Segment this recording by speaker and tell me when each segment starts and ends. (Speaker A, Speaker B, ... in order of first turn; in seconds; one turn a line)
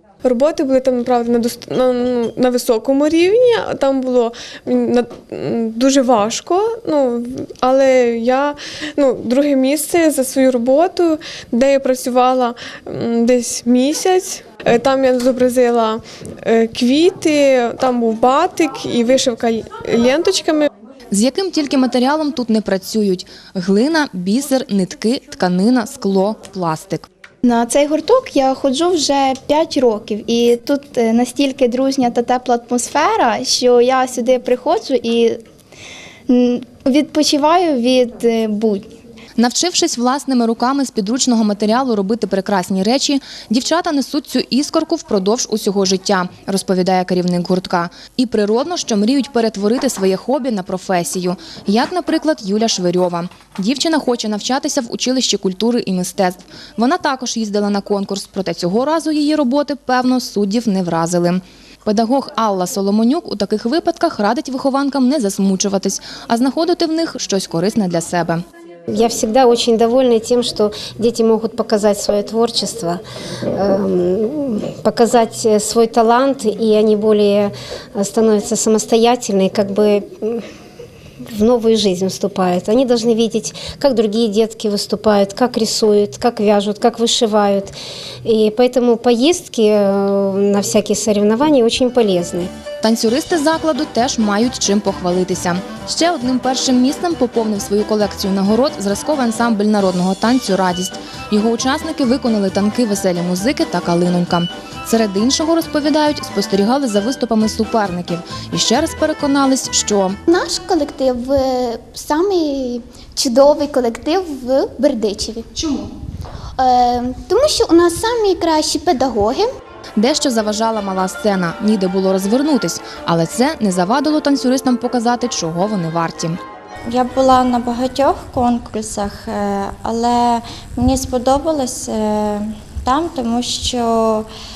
Speaker A: 0.2-20.7
Speaker B: 21.1-27.1
Speaker C: 27.4-35.4
Speaker C: 36.3-38.9
Speaker B: 39.4-68.4
Speaker D: 68.9-73.0
Speaker D: 73.5-80.4
Speaker D: 81.3-87.7
Speaker D: 88.2-92.5
Speaker B: 92.8-110.2
Speaker E: 110.3-115.4
Speaker B: 115.5-115.9
Speaker E: 116.6-119.5
Speaker B: 120.0-126.4
Speaker F: 126.9-134.3